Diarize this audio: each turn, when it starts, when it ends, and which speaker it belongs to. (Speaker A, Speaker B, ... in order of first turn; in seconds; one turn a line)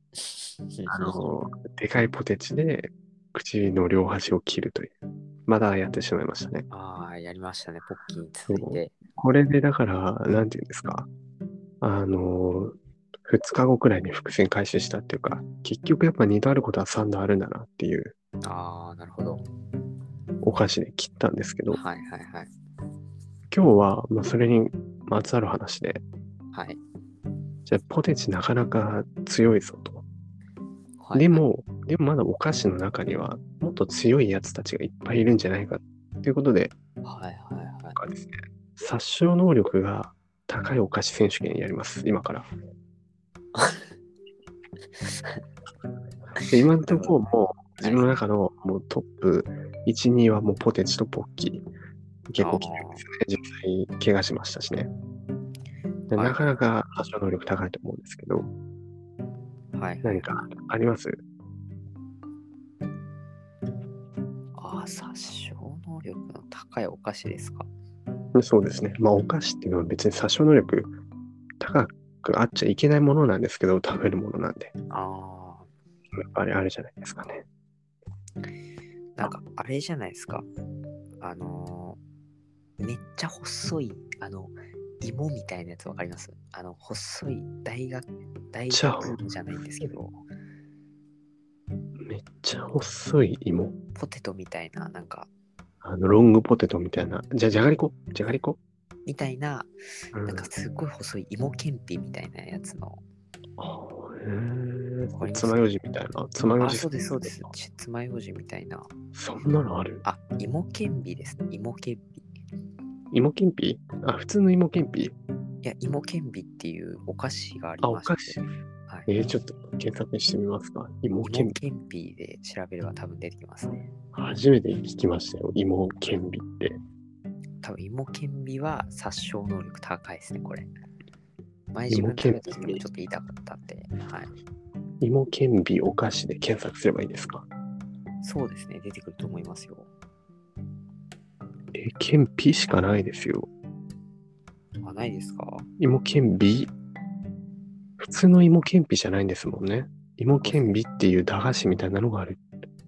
Speaker A: 0.2-1.3
Speaker B: 0.9-4.9
Speaker B: 5.5-6.7
Speaker A: 6.7-8.9
Speaker B: 8.5-11.1
Speaker B: 11.8-12.8
Speaker B: 13.3-18.1
Speaker A: 18.4-19.4
Speaker B: 20.4-21.8
Speaker A: 21.7-22.5
Speaker B: 23.5-26.0
Speaker A: 26.5-26.8
Speaker B: 27.7-30.1
Speaker A: 31.0-31.4
Speaker B: 31.1-36.7
Speaker A: 37.0-38.0
Speaker B: 38.0-42.5
Speaker A: 43.6-43.9
Speaker A: 45.0-45.4
Speaker A: 46.4-47.2
Speaker B: 46.5-51.6
Speaker A: 47.8-48.1
Speaker B: 52.3-54.9
Speaker A: 52.4-53.0
Speaker B: 56.1-58.5
Speaker A: 56.1-56.4
Speaker A: 59.7-60.3
Speaker B: 60.0-61.2
Speaker A: 64.6-67.7
Speaker B: 68.3-70.9
Speaker B: 71.6-74.7
Speaker A: 74.9-75.7
Speaker B: 76.2-77.4
Speaker A: 79.1-80.5
Speaker A: 81.2-82.0
Speaker A: 82.8-90.2
Speaker B: 88.7-89.2
Speaker B: 92.0-93.7
Speaker A: 93.9-95.3
Speaker B: 95.8-98.6
Speaker A: 99.1-103.0
Speaker B: 100.1-100.5
Speaker B: 103.6-107.5
Speaker A: 105.1-105.7
Speaker A: 106.6-108.9
Speaker B: 109.1-110.0
Speaker A: 110.0-112.2
Speaker B: 113.1-115.1
Speaker A: 115.6-119.1
Speaker B: 117.8-118.4
Speaker B: 119.1-121.6
Speaker A: 121.2-123.9
Speaker B: 124.1-126.8
Speaker A: 127.6-130.7
Speaker A: 131.7-134.3
Speaker B: 131.9-132.8
Speaker B: 135.0-137.4
Speaker A: 138.2-139.9
Speaker B: 141.7-143.5
Speaker A: 144.8-145.7
Speaker B: 145.8-146.7
Speaker B: 148.0-152.4
Speaker A: 150.4-150.8